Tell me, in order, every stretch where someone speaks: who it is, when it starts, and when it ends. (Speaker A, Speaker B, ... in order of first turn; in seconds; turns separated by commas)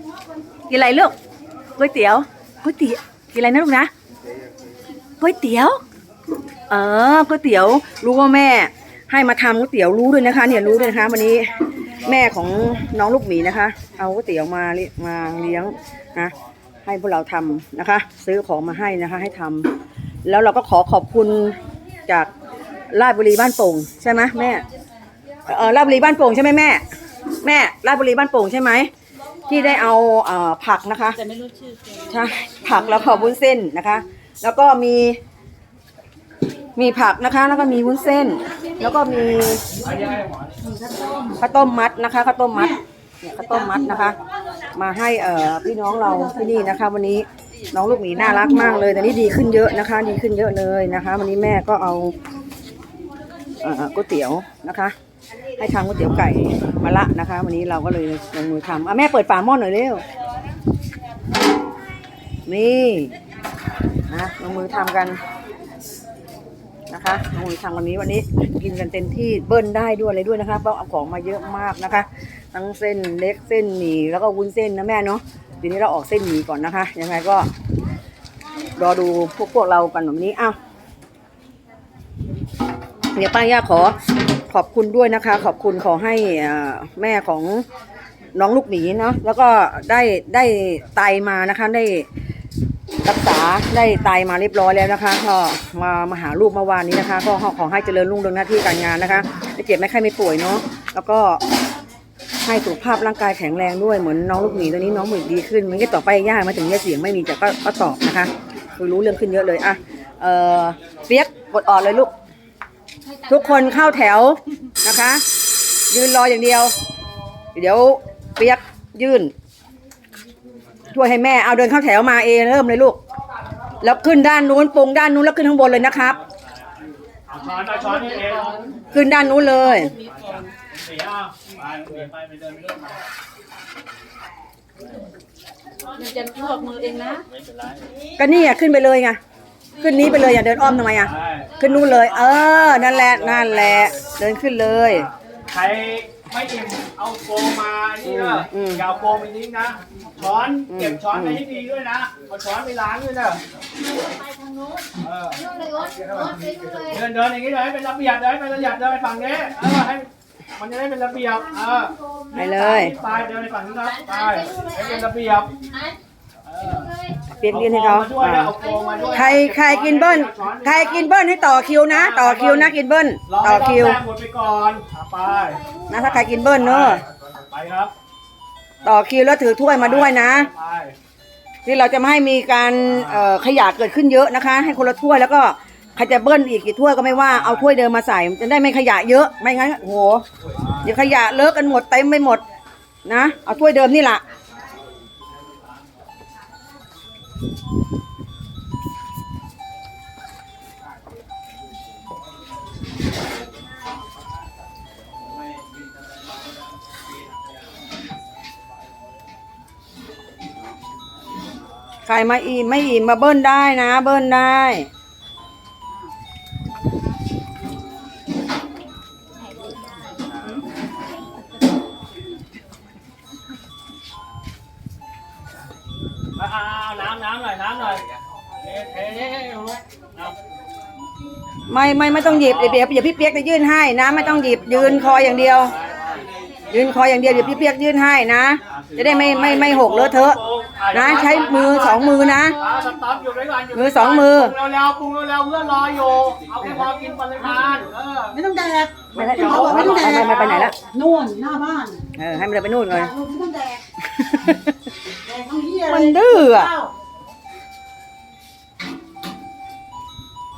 Speaker A: 0.7-1.1, Speaker A: 1.8-3.9, Speaker A: 5.2-5.8, Speaker A: 6.7-16.3, Speaker A: 16.8-19.7, Speaker A: 20.2-22.3, Speaker A: 22.9-24.6, Speaker A: 25.5-26.8, Speaker A: 27.4-28.9, Speaker A: 29.5-31.2, Speaker B: 31.2-33.3, Speaker A: 32.1-35.2, Speaker A: 36.8-39.6, Speaker C: 39.8-40.5, Speaker D: 40.7-41.4, Speaker A: 41.4-44.2, Speaker D: 43.5-43.8, Speaker A: 44.8-52.1, Speaker A: 53.6-55.0, Speaker A: 55.5-60.0, Speaker A: 62.5-63.1, Speaker A: 64.1-65.2, Speaker A: 66.9-77.5, Speaker A: 78.8-80.6, Speaker A: 83.1-84.0, Speaker A: 84.5-87.7, Speaker A: 88.4-92.1, Speaker A: 93.0-101.4, Speaker A: 102.4-112.1, Speaker B: 113.1-113.8, Speaker A: 113.3-115.2, Speaker A: 115.9-116.7, Speaker A: 117.5-119.3, Speaker A: 120.9-123.0, Speaker A: 123.8-126.2, Speaker C: 126.2-126.5, Speaker C: 127.3-128.6, Speaker B: 127.6-128.8, Speaker A: 128.9-129.9, Speaker C: 129.9-133.0, Speaker B: 135.9-137.2, Speaker C: 137.3-137.9, Speaker A: 138.2-139.2, Speaker A: 139.8-145.1, Speaker C: 140.9-144.0, Speaker C: 144.8-153.4, Speaker A: 148.0-148.9, Speaker A: 150.7-151.4, Speaker B: 154.1-154.9, Speaker C: 155.0-155.5, Speaker B: 155.5-156.9, Speaker C: 156.8-165.5, Speaker A: 162.3-162.9, Speaker B: 164.0-164.8, Speaker C: 166.4-166.9, Speaker A: 167.4-168.6, Speaker C: 167.5-171.1, Speaker A: 169.1-174.0, Speaker C: 171.8-177.9, Speaker A: 175.9-177.0, Speaker A: 178.8-180.5, Speaker C: 179.7-181.0, Speaker A: 181.7-190.2, Speaker C: 182.9-183.3, Speaker C: 187.3-187.7, Speaker C: 190.5-191.1, Speaker A: 190.8-192.4, Speaker A: 193.1-194.2, Speaker A: 212.1-214.9, Speaker C: 226.3-228.0, Speaker C: 228.6-230.3, Speaker A: 231.7-235.8, Speaker C: 232.2-232.9, Speaker C: 234.1-236.2, Speaker A: 236.7-240.4, Speaker C: 237.2-237.6, Speaker C: 238.7-248.4, Speaker A: 240.9-242.6, Speaker B: 242.0-242.5, Speaker A: 243.7-244.6, Speaker D: 248.3-252.1, Speaker C: 249.1-250.7, Speaker A: 249.1-250.8, Speaker A: 252.2-253.1, Speaker D: 252.9-253.8, Speaker A: 254.2-254.7, Speaker D: 255.2-256.9, Speaker A: 255.9-256.7